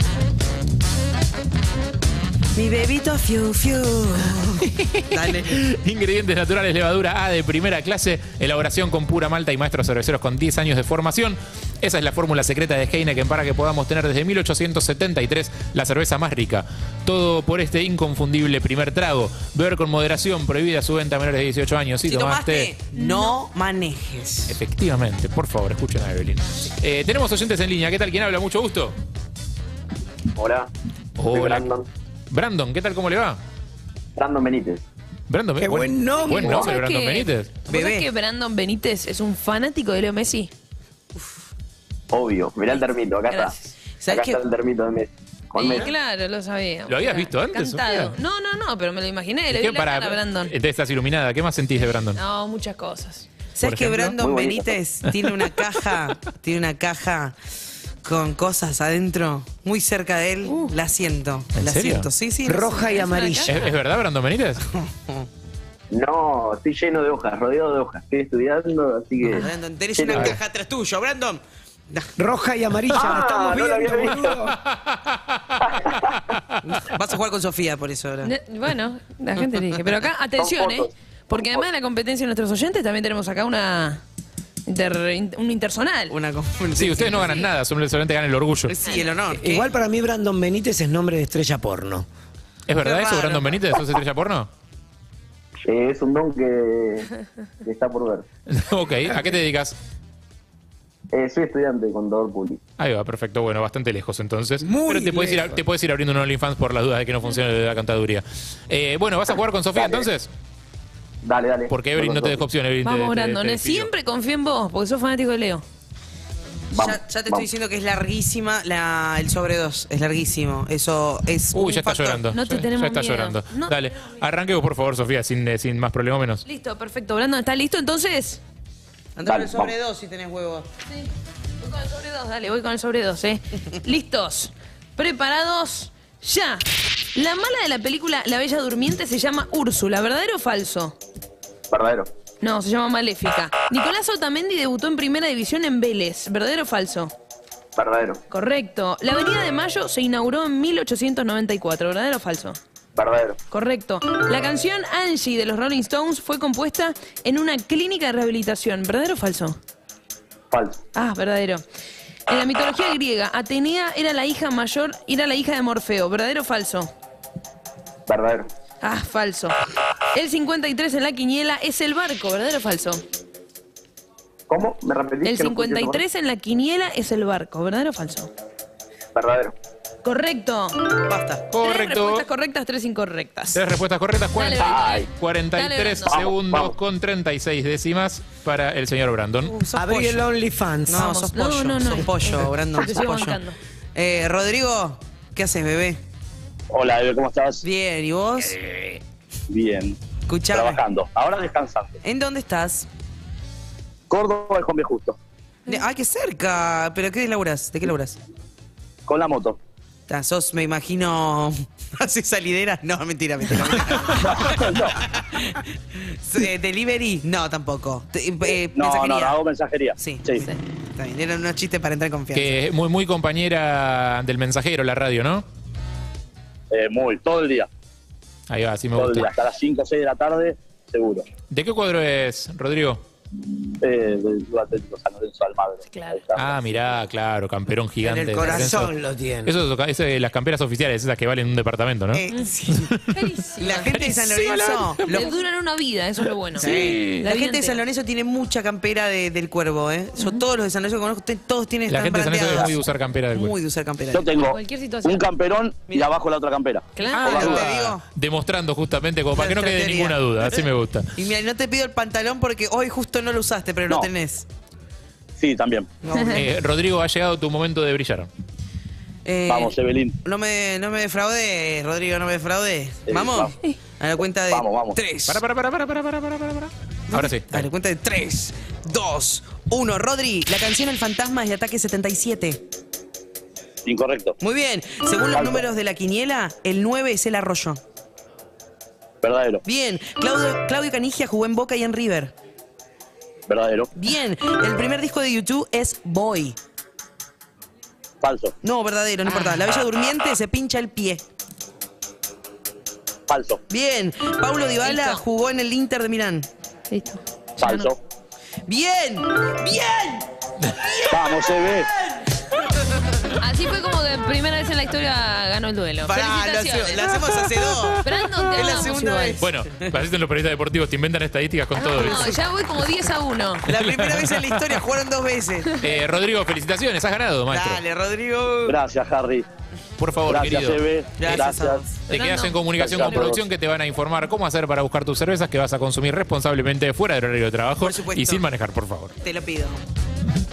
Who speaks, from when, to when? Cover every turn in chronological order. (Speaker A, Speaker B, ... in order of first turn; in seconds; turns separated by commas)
Speaker A: 2.6-5.6, Speaker B: 4.6-22.7, Speaker A: 22.0-24.6, Speaker C: 22.9-23.4, Speaker B: 24.5-28.9, Speaker D: 30.3-30.7, Speaker B: 31.2-31.7, Speaker D: 31.3-31.9, Speaker B: 32.3-33.4, Speaker D: 34.1-34.8, Speaker B: 35.3-37.5, Speaker E: 35.6-36.6, Speaker C: 36.2-40.5, Speaker A: 37.7-38.1, Speaker D: 42.1-43.5, Speaker C: 42.7-43.8, Speaker A: 44.0-44.4, Speaker D: 44.1-45.9, Speaker C: 45.6-50.5, Speaker B: 46.9-48.2, Speaker B: 49.5-52.2, Speaker C: 52.2-53.3, Speaker A: 53.6-57.3, Speaker B: 53.6-54.2, Speaker D: 54.2-54.8, Speaker B: 55.0-55.7, Speaker A: 58.0-62.9, Speaker C: 60.5-60.7, Speaker B: 61.5-62.1, Speaker E: 62.5-63.6, Speaker C: 62.6-63.7, Speaker B: 63.4-64.6, Speaker A: 64.7-65.2, Speaker D: 65.9-70.4, Speaker C: 69.2-69.5, Speaker A: 69.4-72.1, Speaker E: 72.2-74.6, Speaker D: 72.9-74.5, Speaker B: 74.6-76.8, Speaker D: 75.7-76.1, Speaker A: 76.6-78.3, Speaker C: 78.2-84.0, Speaker D: 80.4-80.9, Speaker C: 84.7-86.2, Speaker A: 86.1-87.5, Speaker B: 86.8-88.8, Speaker A: 88.7-89.7, Speaker E: 89.3-92.1, Speaker B: 92.7-94.5, Speaker A: 92.8-93.6, Speaker D: 95.7-97.1, Speaker D: 97.6-98.2, Speaker B: 98.5-99.8, Speaker D: 101.1-102.6, Speaker B: 102.8-110.3, Speaker E: 104.6-105.6, Speaker D: 109.7-110.1, Speaker D: 111.2-112.5, Speaker B: 111.7-113.9, Speaker C: 112.8-115.6, Speaker D: 116.7-117.5, Speaker A: 116.8-122.2, Speaker B: 121.5-126.4, Speaker C: 122.3-123.8, Speaker C: 126.5-128.4, Speaker A: 129.2-130.7, Speaker F: 129.3-129.7, Speaker C: 131.6-141.0, Speaker D: 141.7-142.1, Speaker C: 142.4-147.1, Speaker D: 147.8-148.2, Speaker C: 148.3-152.6, Speaker D: 153.0-153.4, Speaker C: 153.5-159.6, Speaker D: 160.5-160.8, Speaker C: 160.9-161.6, Speaker C: 162.3-166.9, Speaker D: 168.1-168.5, Speaker C: 168.8-169.6, Speaker C: 170.1-173.0, Speaker D: 174.5-176.0, Speaker C: 175.2-178.3, Speaker D: 179.2-179.5, Speaker C: 180.0-180.9, Speaker A: 181.0-181.5, Speaker B: 181.5-182.3, Speaker C: 181.6-183.6, Speaker B: 183.6-189.6, Speaker C: 184.3-186.2, Speaker F: 186.1-186.7, Speaker A: 189.4-190.3, Speaker E: 189.7-191.0, Speaker A: 190.9-193.4, Speaker C: 190.9-193.6, Speaker A: 193.9-196.0, Speaker F: 196.7-197.6, Speaker A: 197.6-198.6, Speaker B: 198.5-199.0, Speaker F: 199.5-200.0, Speaker A: 200.3-200.8, Speaker F: 200.5-202.0, Speaker A: 202.0-202.9, Speaker F: 204.1-205.2, Speaker A: 205.7-208.2, Speaker F: 209.1-209.6, Speaker A: 210.1-219.4, Speaker F: 214.2-215.0, Speaker F: 218.5-220.5, Speaker A: 220.0-220.4, Speaker A: 220.9-222.6, Speaker B: 222.3-225.4, Speaker F: 226.7-227.7, Speaker B: 228.5-229.3, Speaker F: 229.0-231.3, Speaker B: 231.4-233.0, Speaker F: 233.8-236.5, Speaker C: 235.9-236.3, Speaker B: 236.3-243.1, Speaker E: 238.0-239.6, Speaker A: 238.4-238.8, Speaker A: 242.1-242.9, Speaker C: 243.1-244.0, Speaker A: 243.6-245.3, Speaker B: 243.8-245.3, Speaker C: 245.1-247.8, Speaker B: 246.6-247.3, Speaker A: 246.6-254.3, Speaker C: 250.2-250.4, Speaker B: 251.9-253.6, Speaker F: 254.1-257.7, Speaker C: 254.4-255.3, Speaker A: 255.9-256.2, Speaker C: 257.0-257.6, Speaker B: 257.1-261.1, Speaker A: 257.2-258.0, Speaker A: 259.3-264.5, Speaker F: 265.4-265.9, Speaker A: 266.0-266.5, Speaker C: 266.1-266.4, Speaker B: 266.3-268.3, Speaker A: 269.2-275.4, Speaker F: 269.5-270.2, Speaker F: 273.1-273.5, Speaker F: 274.5-275.0, Speaker B: 275.3-277.7, Speaker A: 277.1-282.6, Speaker F: 283.9-284.4, Speaker A: 284.4-287.8, Speaker F: 285.3-285.7, Speaker F: 289.2-289.6, Speaker A: 289.6-292.3, Speaker F: 293.5-293.9, Speaker A: 293.9-296.6, Speaker F: 298.2-298.6, Speaker A: 298.6-301.2, Speaker C: 299.3-299.7, Speaker F: 303.3-303.6, Speaker A: 303.7-306.5, Speaker C: 304.8-305.2, Speaker C: 306.9-307.9, Speaker F: 307.6-308.0, Speaker A: 308.7-313.3, Speaker F: 311.1-311.9, Speaker C: 313.4-317.2, Speaker A: 316.0-318.0, Speaker B: 317.1-318.7, Speaker C: 318.0-319.5, Speaker A: 318.5-319.9, Speaker B: 319.4-322.4, Speaker C: 321.8-323.7, Speaker A: 321.9-322.4, Speaker A: 323.7-325.8, Speaker B: 323.7-324.8, Speaker B: 325.8-327.8, Speaker A: 327.5-328.8, Speaker F: 328.7-329.5, Speaker B: 330.0-330.8, Speaker F: 330.3-331.9, Speaker A: 331.2-332.0, Speaker B: 332.1-339.1, Speaker C: 332.1-333.3, Speaker F: 332.8-333.4, Speaker A: 337.8-338.5, Speaker A: 339.2-339.8